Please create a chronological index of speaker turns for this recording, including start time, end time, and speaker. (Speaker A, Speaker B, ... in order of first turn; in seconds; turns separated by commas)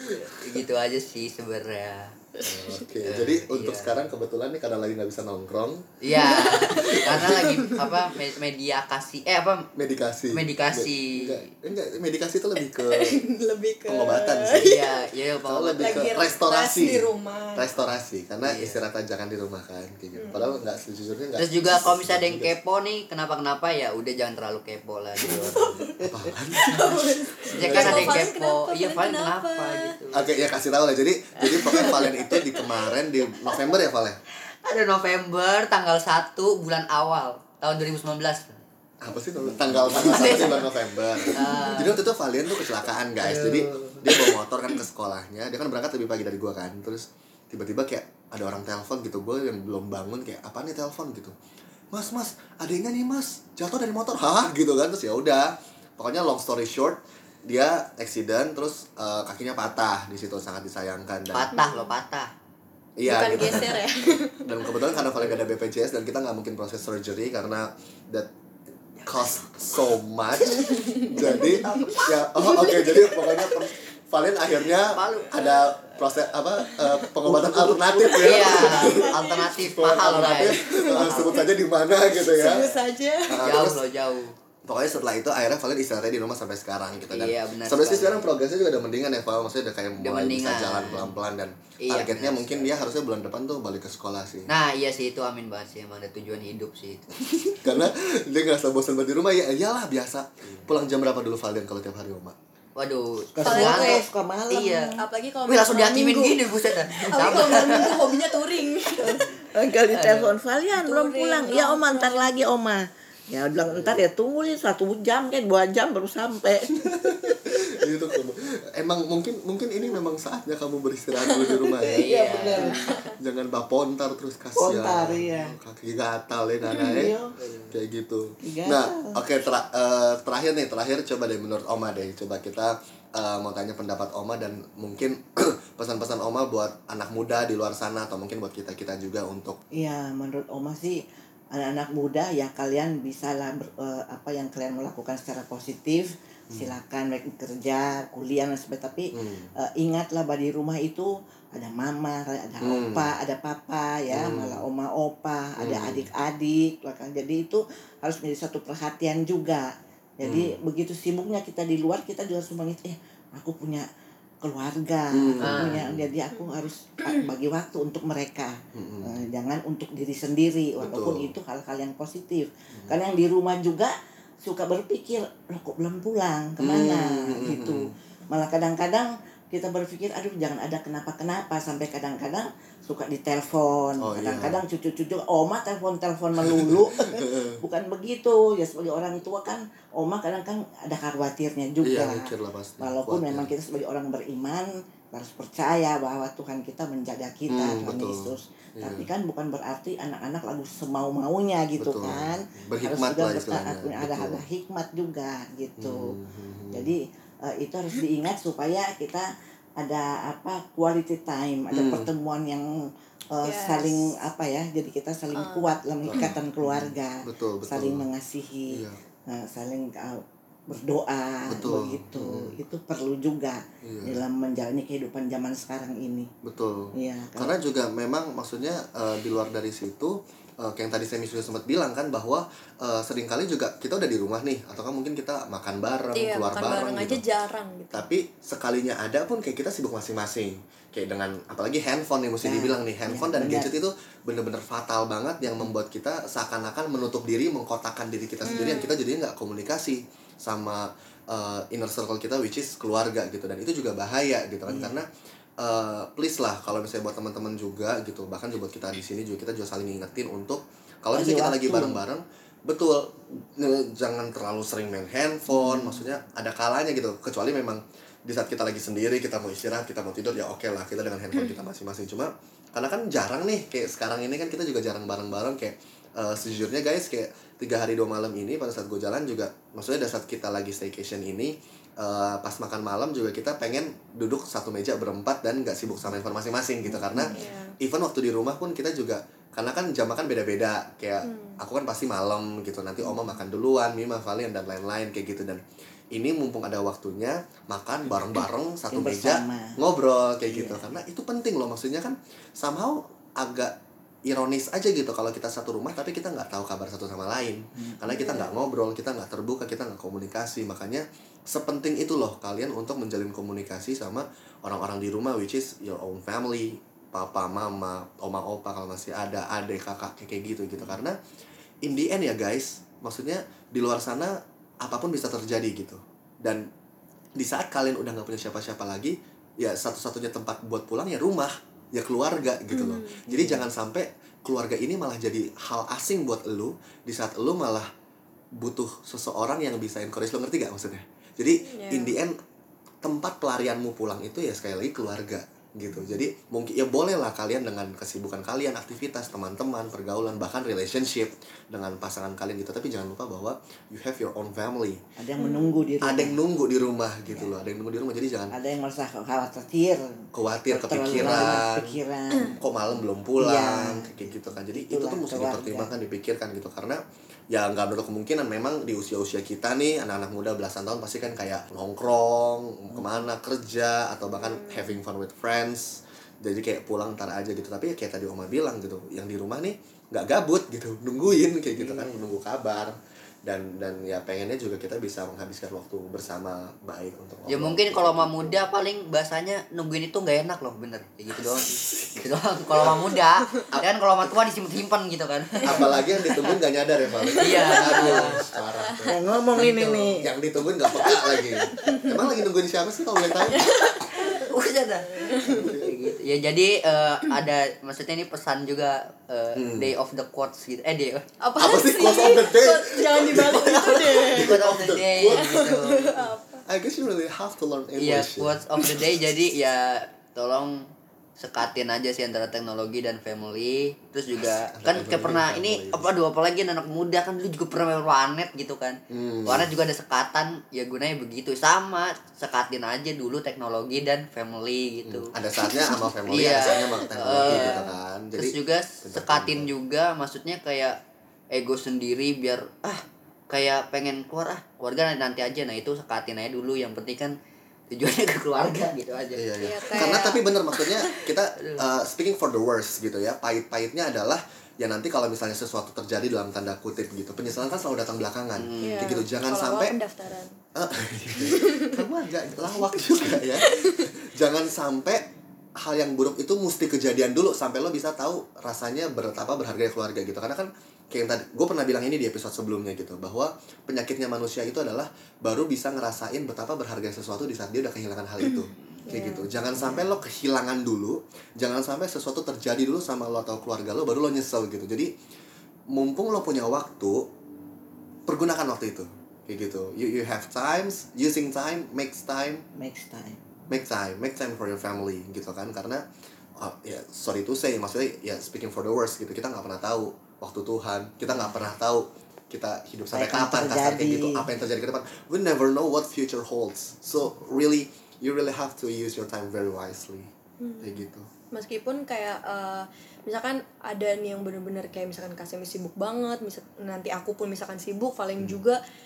Speaker A: 0.2-2.1, Speaker B: 2.4-6.0, Speaker A: 3.0-4.0, Speaker A: 6.0-9.7, Speaker C: 6.1-8.1, Speaker B: 6.6-7.5, Speaker B: 9.8-13.2, Speaker A: 10.3-11.4, Speaker C: 12.7-15.1, Speaker B: 13.9-14.8, Speaker A: 14.6-16.2, Speaker B: 15.4-22.5, Speaker C: 15.8-17.7, Speaker A: 18.4-18.8, Speaker C: 20.1-20.6, Speaker A: 21.4-25.9, Speaker B: 25.3-28.3, Speaker D: 25.8-26.3, Speaker C: 26.5-29.9, Speaker A: 27.5-30.3, Speaker B: 30.1-34.2, Speaker C: 31.4-32.8, Speaker A: 34.6-38.6, Speaker B: 39.0-51.4, Speaker A: 39.7-40.7, Speaker A: 41.3-42.0, Speaker A: 43.2-44.4, Speaker B: 51.9-61.5, Speaker A: 61.3-62.3, Speaker C: 61.5-62.0, Speaker B: 63.0-68.3, Speaker C: 63.0-64.8, Speaker A: 63.4-63.7, Speaker A: 69.0-69.4, Speaker B: 69.1-82.7, Speaker C: 70.6-73.7, Speaker A: 71.4-72.0, Speaker A: 74.8-75.9, Speaker D: 77.2-78.5, Speaker A: 78.1-81.5, Speaker C: 78.5-79.5, Speaker C: 80.3-81.5, Speaker C: 82.2-83.5, Speaker B: 83.3-83.8, Speaker A: 83.4-84.3, Speaker B: 84.7-94.5, Speaker A: 87.1-88.3, Speaker A: 90.0-91.2, Speaker A: 91.8-92.7, Speaker A: 94.5-97.2, Speaker B: 97.6-102.4, Speaker A: 102.8-108.2, Speaker D: 103.3-104.9, Speaker C: 103.5-104.0, Speaker C: 104.9-106.5, Speaker C: 107.0-109.3, Speaker D: 109.0-117.3, Speaker A: 109.9-110.3, Speaker C: 110.7-112.3, Speaker B: 116.8-122.2, Speaker D: 121.8-122.8, Speaker A: 121.9-123.0, Speaker C: 122.5-123.1, Speaker B: 123.2-127.2, Speaker D: 124.6-125.6, Speaker D: 126.8-127.3, Speaker A: 127.4-127.8, Speaker B: 127.7-139.6, Speaker D: 128.4-129.2, Speaker D: 139.8-141.0, Speaker D: 141.5-163.8, Speaker B: 149.1-149.5, Speaker B: 152.6-153.1, Speaker B: 154.1-154.6, Speaker B: 155.6-156.1, Speaker B: 160.2-160.6, Speaker D: 164.4-206.1, Speaker B: 165.1-166.1, Speaker A: 165.4-165.8, Speaker B: 168.7-169.1, Speaker B: 170.8-171.3, Speaker B: 176.6-177.9, Speaker B: 184.0-184.6, Speaker B: 186.4-187.6, Speaker B: 191.8-193.5, Speaker B: 197.5-199.1, Speaker B: 201.8-204.4, Speaker B: 205.8-206.9, Speaker D: 206.7-209.3, Speaker D: 209.8-212.7, Speaker B: 211.7-212.1, Speaker D: 213.3-226.3, Speaker C: 213.4-214.1, Speaker C: 215.3-215.7, Speaker B: 216.1-218.1, Speaker B: 218.7-219.0, Speaker B: 221.5-222.6, Speaker B: 223.8-224.2, Speaker B: 226.4-237.2, Speaker D: 226.9-227.6, Speaker C: 236.1-238.1, Speaker B: 237.9-255.1, Speaker D: 242.4-243.7, Speaker C: 248.4-249.0, Speaker D: 254.7-255.0, Speaker B: 255.6-321.2, Speaker D: 261.1-262.0, Speaker D: 265.5-266.0, Speaker D: 286.9-287.3, Speaker C: 287.3-287.8, Speaker C: 291.2-291.6, Speaker D: 298.9-299.8, Speaker D: 300.5-300.9, Speaker D: 307.8-308.1, Speaker C: 308.1-308.6, Speaker B: 321.8-326.7, Speaker B: 327.4-337.9, Speaker C: 332.7-333.2, Speaker D: 333.3-333.7, Speaker B: 338.6-342.4, Speaker C: 341.7-342.2, Speaker B: 343.0-355.0, Speaker D: 355.2-356.4, Speaker C: 355.4-355.9, Speaker B: 356.0-358.6, Speaker D: 357.3-357.6, Speaker D: 358.5-362.6, Speaker B: 360.3-362.0, Speaker B: 362.6-388.6, Speaker D: 363.4-365.9, Speaker C: 374.4-375.0, Speaker D: 381.8-382.2, Speaker A: 387.5-395.9, Speaker B: 391.4-393.1, Speaker B: 395.6-399.2, Speaker C: 397.1-399.1, Speaker A: 397.4-398.5, Speaker D: 399.1-400.3, Speaker A: 399.6-400.1, Speaker B: 400.1-404.0, Speaker C: 401.0-402.2, Speaker C: 403.4-404.4, Speaker A: 404.2-411.2, Speaker C: 405.2-405.7, Speaker B: 405.5-405.9, Speaker B: 409.6-409.9, Speaker C: 411.4-416.6, Speaker B: 411.6-413.7, Speaker A: 413.4-416.2, Speaker B: 414.3-415.6, Speaker B: 416.7-418.9, Speaker A: 418.0-435.3, Speaker B: 424.3-426.1, Speaker B: 429.1-429.7, Speaker B: 435.1-439.7, Speaker C: 435.7-436.1, Speaker A: 436.3-441.0, Speaker C: 436.7-437.9, Speaker A: 441.5-447.4, Speaker A: 447.9-450.3, Speaker B: 449.4-459.9, Speaker C: 449.6-451.0, Speaker A: 451.6-451.9, Speaker A: 458.6-459.1, Speaker C: 458.8-460.6, Speaker B: 460.8-485.1, Speaker C: 461.4-462.0, Speaker C: 463.6-464.1, Speaker C: 479.1-479.5, Speaker D: 479.7-480.1, Speaker B: 485.9-487.3, Speaker B: 488.3-492.7, Speaker D: 492.8-493.4, Speaker B: 493.7-496.1, Speaker B: 496.6-511.3, Speaker D: 503.1-504.5, Speaker C: 510.6-518.8